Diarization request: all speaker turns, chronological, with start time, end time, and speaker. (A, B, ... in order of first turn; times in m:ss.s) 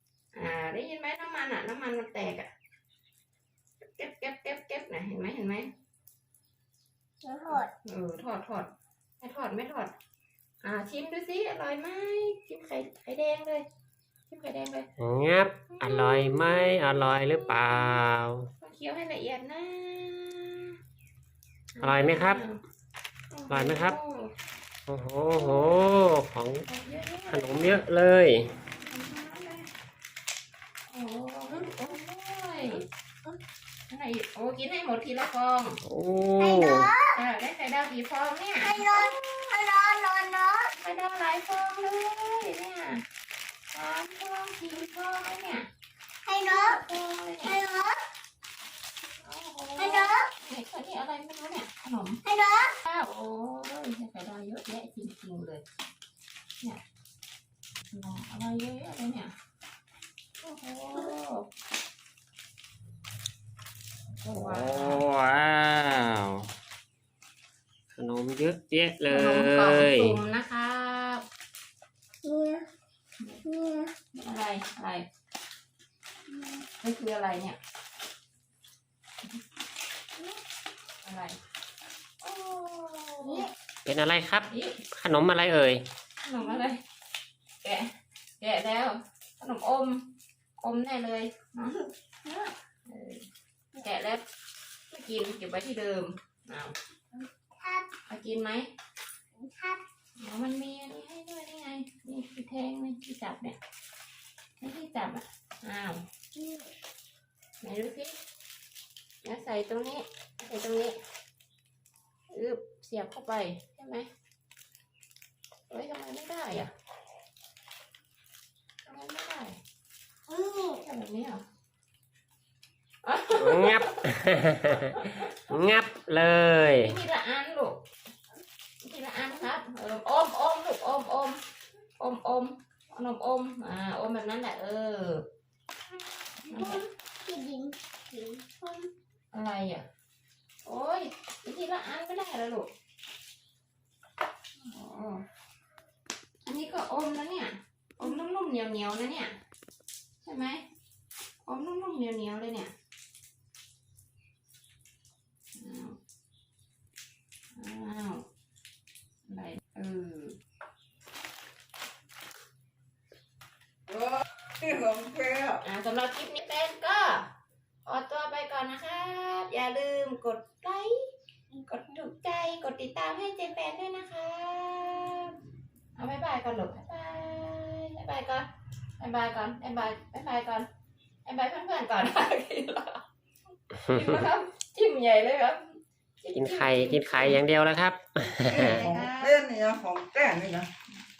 0:00.3-0:02.5 A
0:03.9-0:05.7 A
0:07.2-0:07.7 B
0:07.5-0:08.7 A
0:09.2-0:09.9 A
0:10.6-0:13.6 A
0:14.3-0:14.9 A
0:15.0-0:18.5 C
0:15.7-0:18.0 A
0:18.6-0:20.7 A
0:21.7-0:22.6 A
0:21.8-0:22.4 C
0:23.3-0:24.3 A
0:23.5-0:24.0 C
0:24.9-0:26.6 C
0:25.3-0:25.8 A
0:26.7-0:27.8 A
0:27.3-0:28.5 C
0:28.9-0:29.7 A
0:30.9-0:32.8 A
0:33.9-0:35.8 A
0:35.8-0:36.9 C
0:36.4-0:37.2 B
0:37.1-0:39.0 A
0:38.6-0:40.7 B
0:40.8-0:43.0 A
0:43.7-0:45.7 A
0:46.2-0:46.8 B
0:46.5-0:47.6 A
0:47.4-0:48.0 B
0:49.2-0:52.2 A
0:49.8-0:50.3 B
0:52.2-0:52.7 B
0:52.8-0:55.6 A
0:57.9-0:59.3 A
1:00.4-1:01.4 A
1:04.2-1:05.0 A
1:04.3-1:06.5 C
1:07.9-1:10.2 C
1:09.0-1:11.2 A
1:12.2-1:12.6 B
1:13.4-1:13.9 B
1:14.1-1:15.1 A
1:16.3-1:16.6 B
1:16.8-1:17.6 A
1:21.0-1:21.4 A
1:22.2-1:23.5 A
1:23.2-1:23.5 B
1:23.8-1:25.8 C
1:24.5-1:24.8 A
1:26.2-1:26.8 A
1:26.4-1:26.6 B
1:27.6-1:27.9 A
1:28.4-1:30.0 A
1:30.6-1:31.8 A
1:32.2-1:32.5 B
1:32.9-1:33.2 A
1:33.8-1:34.2 A
1:34.9-1:36.7 A
1:37.1-1:37.9 B
1:38.1-1:38.7 A
1:39.3-1:39.8 B
1:40.2-1:43.6 A
1:44.6-1:46.0 A
1:46.3-1:46.7 B
1:47.6-1:48.2 A
1:49.2-1:51.0 A
1:52.3-1:54.1 A
1:55.7-1:56.7 A
1:58.8-1:59.6 A
2:00.3-2:00.8 B
2:00.8-2:01.4 A
2:03.0-2:03.9 A
2:03.4-2:06.9 C
2:04.7-2:05.4 A
2:06.8-2:07.8 A
2:08.8-2:11.4 A
2:12.0-2:15.2 A
2:16.4-2:18.9 B
2:16.5-2:16.8 A
2:19.3-2:19.8 A
2:20.6-2:22.7 A
2:24.7-2:25.2 A
2:26.4-2:29.3 A
2:30.2-2:30.6 A
2:31.4-2:32.7 A
2:35.6-2:36.0 A
2:37.6-2:38.2 A
2:39.3-2:40.4 A
2:43.9-2:45.6 D
2:45.6-2:47.2 A
2:47.8-2:51.0 A
2:51.5-2:55.3 A
2:56.0-2:58.4 A
2:59.0-3:00.7 A
3:01.2-3:03.0 A
3:03.8-3:07.4 A
3:03.9-3:04.2 C
3:06.3-3:08.8 C
3:08.5-3:10.7 D
3:08.5-3:09.4 A